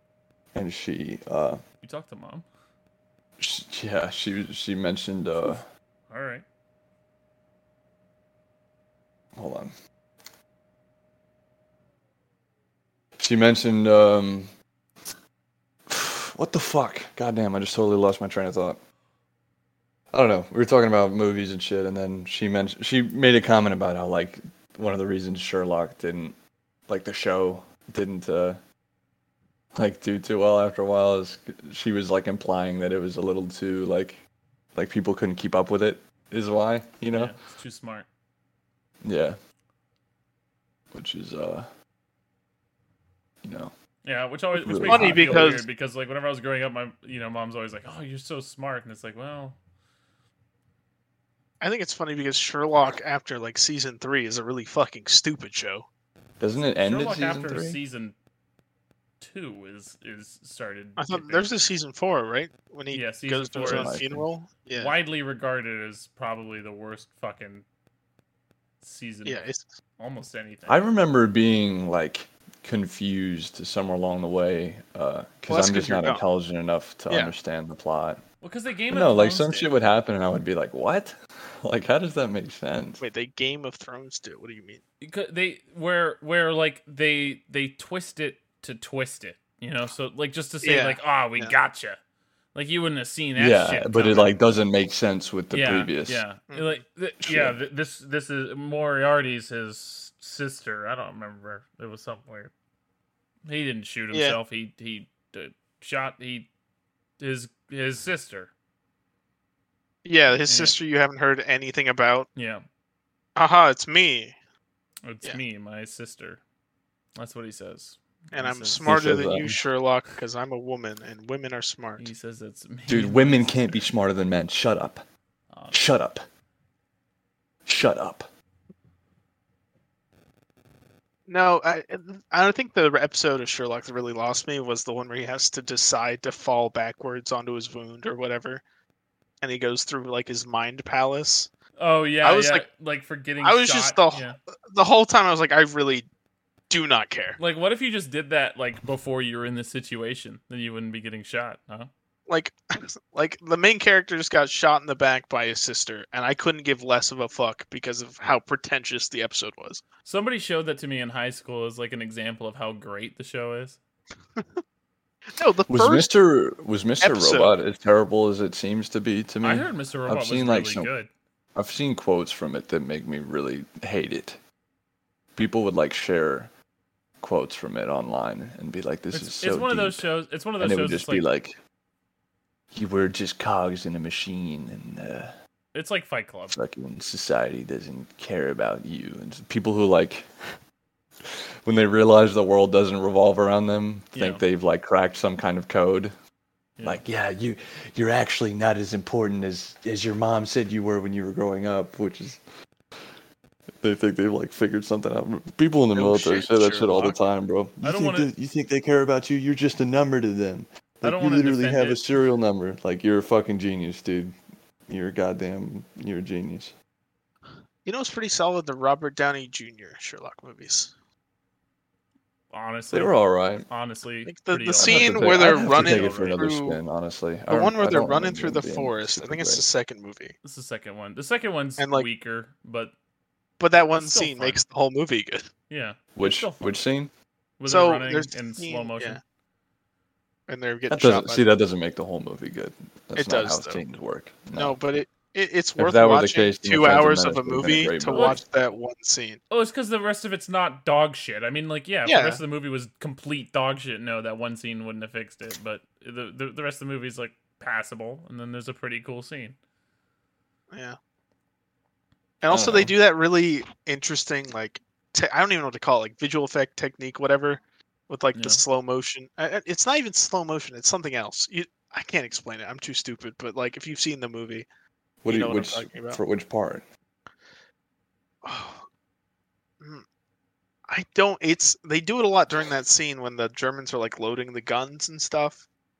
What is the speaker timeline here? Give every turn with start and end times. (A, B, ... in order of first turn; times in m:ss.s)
0:00.5-0:01.6 A
0:01.8-0:02.4 B
0:03.4-0:05.6 A
0:06.1-0:06.4 B
0:09.3-0:09.7 A
0:13.2-0:14.5 A
0:15.9-0:18.8 A
0:20.1-0:26.4 A
0:26.9-0:28.6 A
0:29.7-0:34.2 A
0:34.7-0:37.3 A
0:37.1-0:38.1 B
0:39.0-0:39.4 A
0:40.9-0:41.7 A
0:43.4-0:43.7 A
0:44.0-0:49.6 B
0:44.6-0:45.6 A
0:44.9-0:45.6 C
0:51.6-0:55.9 C
0:56.4-0:57.8 A
0:56.6-0:58.1 B
0:59.2-1:01.5 B
1:01.0-1:04.9 C
1:02.9-1:04.0 B
1:03.6-1:04.2 A
1:04.8-1:07.6 B
1:08.8-1:09.4 B
1:09.2-1:09.6 C
1:10.0-1:10.8 B
1:10.7-1:18.2 A
1:15.5-1:16.2 C
1:18.4-1:19.7 B
1:18.9-1:23.0 A
1:23.0-1:24.8 C
1:25.0-1:32.0 B
1:30.6-1:31.5 C
1:32.5-1:34.4 B
1:33.4-1:36.2 A
1:35.5-1:42.5 B
1:36.5-1:36.8 C
1:37.2-1:37.6 A
1:43.5-1:46.5 B
1:44.1-1:44.4 C
1:47.2-1:48.5 B
1:50.0-1:52.3 C
1:50.4-1:50.8 B
1:52.4-1:52.6 B
1:53.4-1:54.4 C
1:55.0-1:56.4 B
1:57.2-1:59.0 B
1:58.3-2:02.1 C
1:58.8-1:59.6 A
2:02.0-2:03.8 B
2:02.9-2:05.0 A
2:05.5-2:05.8 B
2:05.7-2:06.2 A
2:07.6-2:08.3 A
2:11.3-2:18.6 C
2:19.4-2:21.5 C
2:21.8-2:24.4 B
2:22.2-2:22.6 C
2:23.4-2:26.0 C
2:26.7-2:27.4 C
2:27.4-2:31.9 B
2:32.3-2:39.8 C
2:40.0-2:43.8 B
2:45.3-2:46.1 C
2:45.7-2:50.9 A
2:47.0-2:47.5 C
2:49.4-2:51.1 B
2:51.5-2:54.4 A
2:55.3-2:56.5 A
2:57.2-3:00.1 A
2:59.1-3:01.3 B
3:00.6-3:01.6 A
3:02.7-3:05.3 A
3:05.7-3:06.6 B
3:06.5-3:10.3 A
3:11.2-3:16.1 A
3:14.1-3:14.4 B
3:16.8-3:22.4 A
3:23.8-3:34.3 A
3:25.9-3:27.1 C
3:27.8-3:28.3 B
3:31.0-3:32.0 B
3:34.9-3:36.7 A
3:37.8-3:40.9 C
3:42.5-3:46.4 B
3:42.9-3:43.7 A
3:44.3-3:46.8 C
3:44.8-3:49.6 A
3:47.5-3:50.3 C
3:50.4-3:52.9 B
3:51.8-3:52.1 C
3:53.6-3:55.5 C
3:54.0-3:54.6 B
3:55.7-3:56.7 B
3:56.1-3:57.1 A
3:57.6-3:59.2 B
3:57.7-3:59.2 C
4:00.5-4:01.5 C
4:00.9-4:04.8 A
4:03.2-4:03.8 C
4:04.5-4:09.4 C
4:05.8-4:08.4 A
4:08.1-4:08.4 B
4:09.5-4:19.6 B
4:12.0-4:12.4 C
4:20.7-4:21.0 C
4:22.4-4:34.6 C
4:22.5-4:22.9 A
4:28.3-4:28.6 B
4:35.2-4:36.8 A
4:35.3-4:36.2 C
4:38.4-4:38.8 C
4:40.9-4:45.6 C